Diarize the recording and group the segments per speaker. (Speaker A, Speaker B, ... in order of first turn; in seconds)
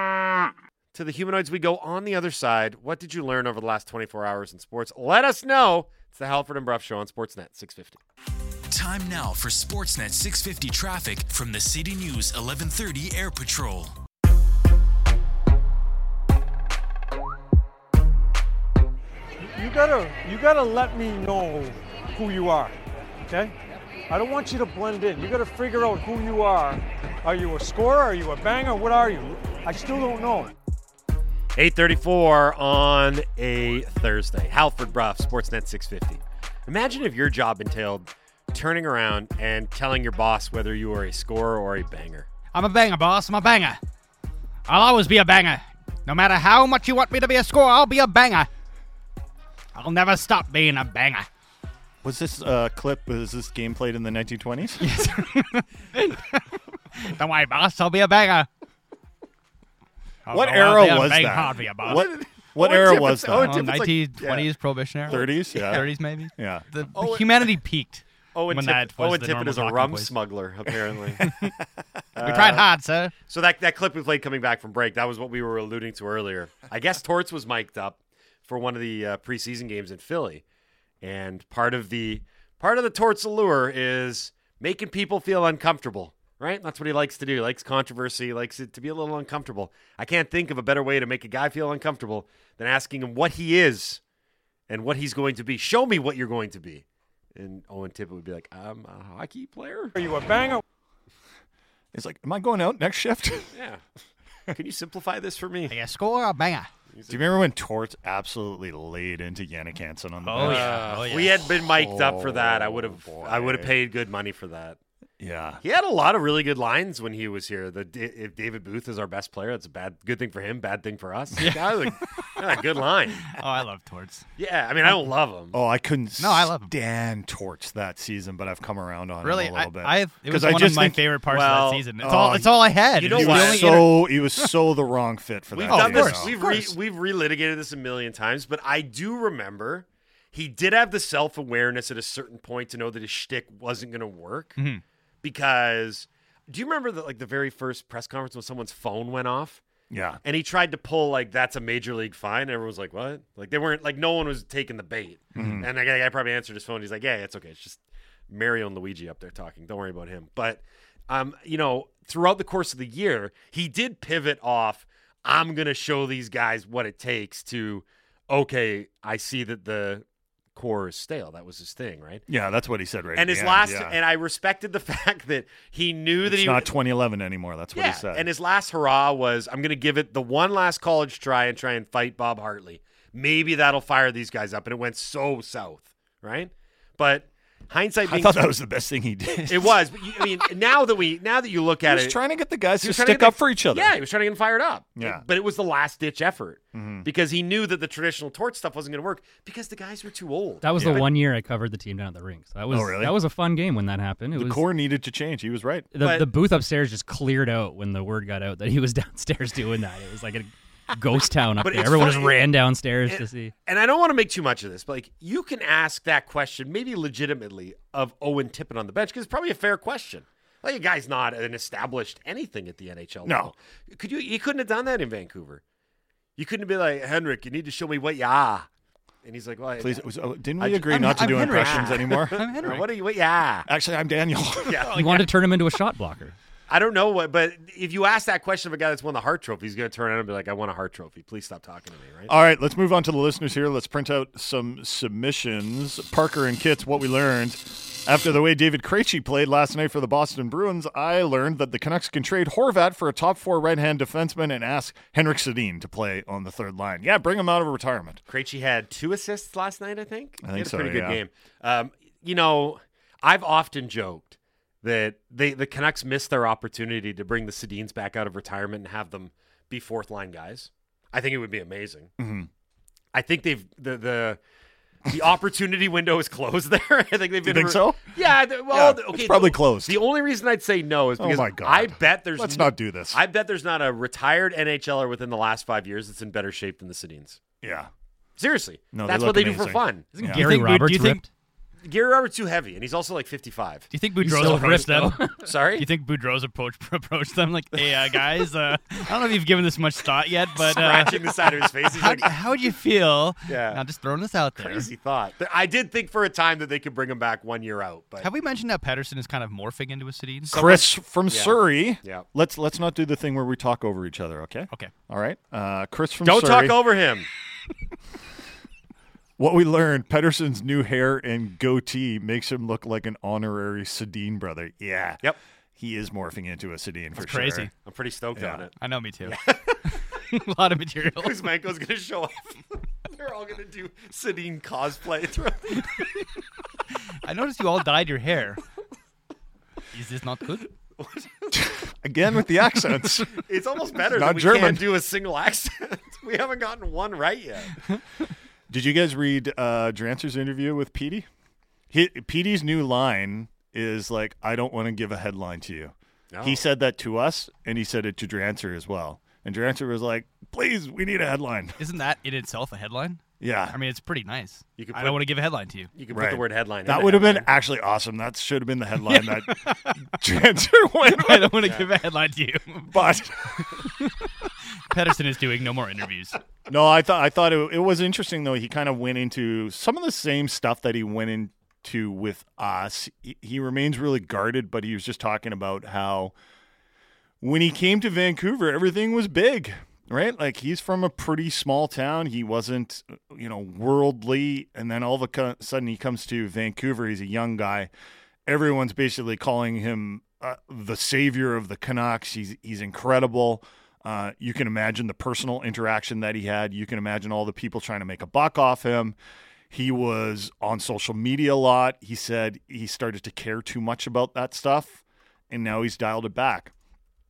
Speaker A: 0.9-8.0, 31.5-42.3, 61.9-64.5, 65.0-65.8, 66.9-67.5, 68.3-71.3, 72.1-72.7, 73.3-80.4, 81.0-94.0, 94.7-96.8, 97.3-99.9, 103.5-103.8, 104.5-105.7, 106.9-107.2, 110.3-114.8, 115.6-123.4, 124.4-125.5, 131.3-132.2, 133.0-133.8, 135.5-144.6, 145.2-149.6, 150.2-172.2, 173.1-176.7, 177.7-188.5, 189.4-192.2, 192.8-201.1, 206.0-206.3, 211.6-225.6, 226.4-228.7, 229.2-230.1, 230.6-233.7, 234.7-235.2, 236.7-242.3, 258.3-272.1, 273.1-274.4, 275.1-287.4, 288.4-290.1, 291.8-293.9, 294.4-294.8, 295.4-295.8, 300.6-302.3, 303.5-303.8, 304.6-308.3, 311.3-312.2, 316.2-317.3, 327.8-328.7, 329.2-329.9, 331.1-336.3, 340.9-341.6, 343.3-348.0, 356.3-356.6, 364.8-365.2, 365.9-367.5, 371.6-371.9
Speaker B: 8.7-13.9
Speaker C: 19.4-23.5, 24.1-30.6, 99.9-100.6
Speaker D: 42.5-43.8, 44.7-48.5, 49.7-51.3, 54.8-58.5, 60.3-62.0, 63.4-70.1, 71.2-71.5, 72.2-73.1, 105.7-106.7, 110.2-111.5, 121.4-122.5, 123.3-124.3, 126.2-126.7, 129.2-134.5, 135.7-136.8, 144.6-144.8, 230.8-232.9, 234.8-235.3, 290.2-291.2, 293.9-301.2, 301.8-304.9, 308.2-310.9, 327.2-327.7, 328.8-331.5, 335.8-336.2, 337.2-338.6, 339.9-340.7, 361.8-365.9, 369.1-370.1, 371.1-372.9, 373.6-376.4
Speaker E: 52.0-55.0, 60.3-63.6, 65.1-66.6, 101.9-103.6, 107.1-113.7, 115.2-115.6, 125.5-131.0, 132.0-136.3, 149.9-150.2, 155.3-155.7, 172.3-174.0, 176.2-178.3, 188.0-190.5, 191.8-193.9, 195.0-195.2, 196.7-197.1, 200.8-201.0, 202.7-203.2, 204.3-205.9, 223.2-223.5, 229.8-232.5, 233.7-234.9, 242.3-258.2, 260.4-261.2, 272.2-272.5, 277.4-278.1, 278.7-280.0, 281.2-283.2, 287.6-287.9, 288.9-291.2, 310.5-316.8, 319.4-325.2, 325.8-327.7, 328.3-328.6, 341.5-343.4, 344.1-344.8, 348.7-351.3, 351.9-361.8, 363.4-363.8, 366.1-371.7, 372.9-373.8, 376.7-386.3, 387.4-397.9, 398.4-409.1, 409.7-416.7
Speaker F: 200.6-204.6, 205.9-213.5, 234.9-236.3, 290.2-290.7, 294.2-295.4